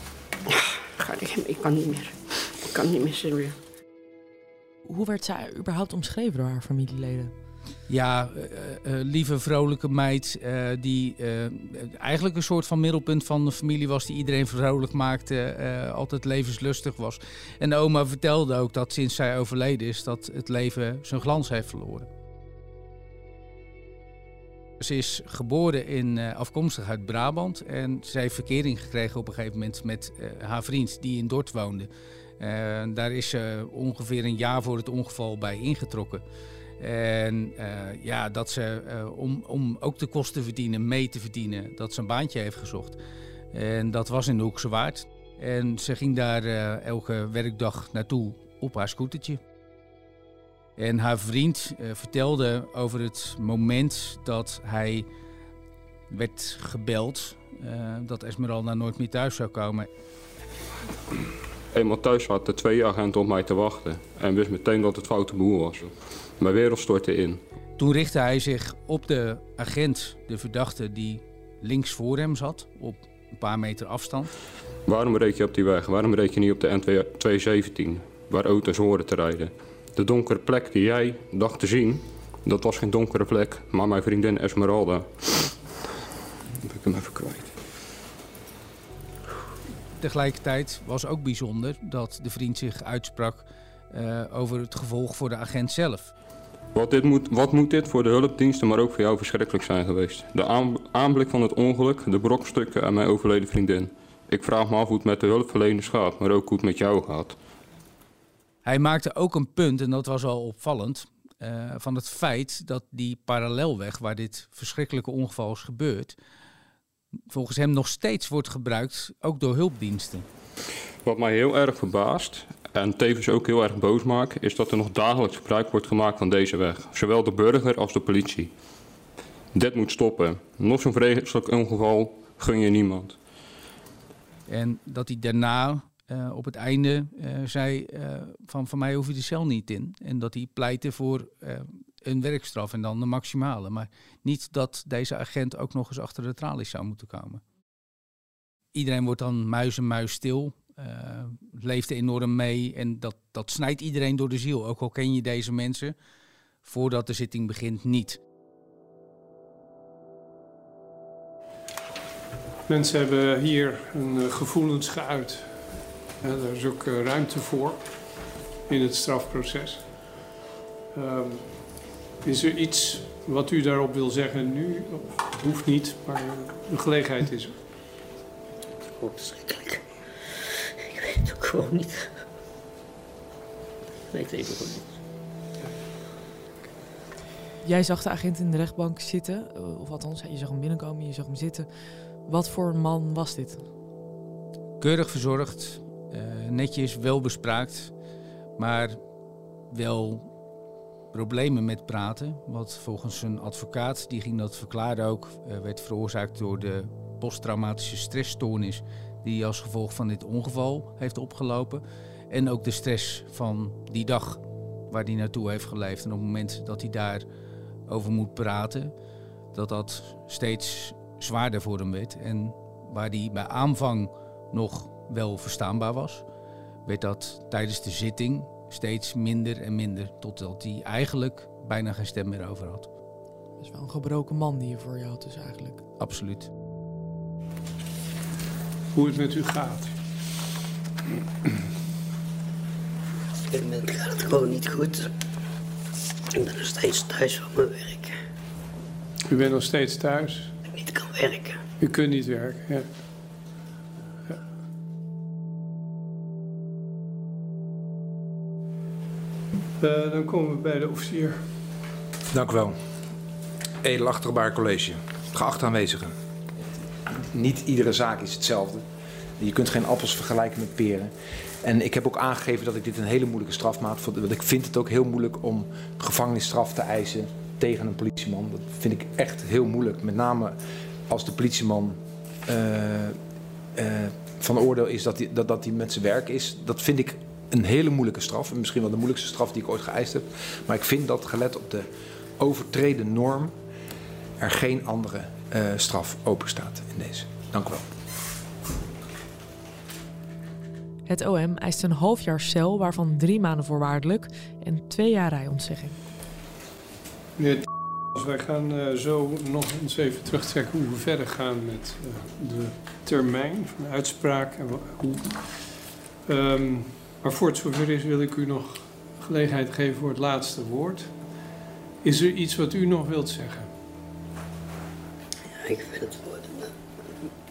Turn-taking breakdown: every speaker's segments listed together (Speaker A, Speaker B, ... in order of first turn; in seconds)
Speaker A: 0.5-3.6
Speaker B: 4.8-7.3, 187.6-191.7, 192.2-193.7, 233.6-235.8, 301.1-306.0
Speaker C: 7.9-22.1, 24.8-31.9, 32.4-36.2, 36.8-43.0, 43.5-49.4, 50.8-55.0, 56.1-59.9, 67.8-74.3, 90.0-96.1, 108.6-116.2, 117.3-120.2, 134.5-147.4, 148.7-155.9, 156.6-158.2, 194.8-197.9, 198.6-199.0, 199.7-200.3, 201.1-217.2, 217.9-218.9, 219.5-226.2, 226.8-232.9, 236.0-236.5
Speaker D: 61.7-67.4, 74.9-85.6, 86.6-87.5, 96.7-107.3, 121.0-128.5, 129.5-133.2
Speaker E: 162.7-167.9, 168.7-170.1, 170.9-177.6, 238.9-239.9, 249.3-250.5, 251.8-252.9, 259.8-261.5, 307.4-321.2, 322.0-323.7
Speaker F: 179.0-179.8, 180.9-182.1, 184.1-184.9, 243.5-245.1, 246.3-248.1, 250.7-251.6, 325.6-326.7
Speaker G: 262.3-262.7, 263.8-266.1, 267.3-268.8, 269.4-271.1, 271.6-280.6, 281.1-283.1, 283.8-291.9, 292.4-293.5, 294.4-297.9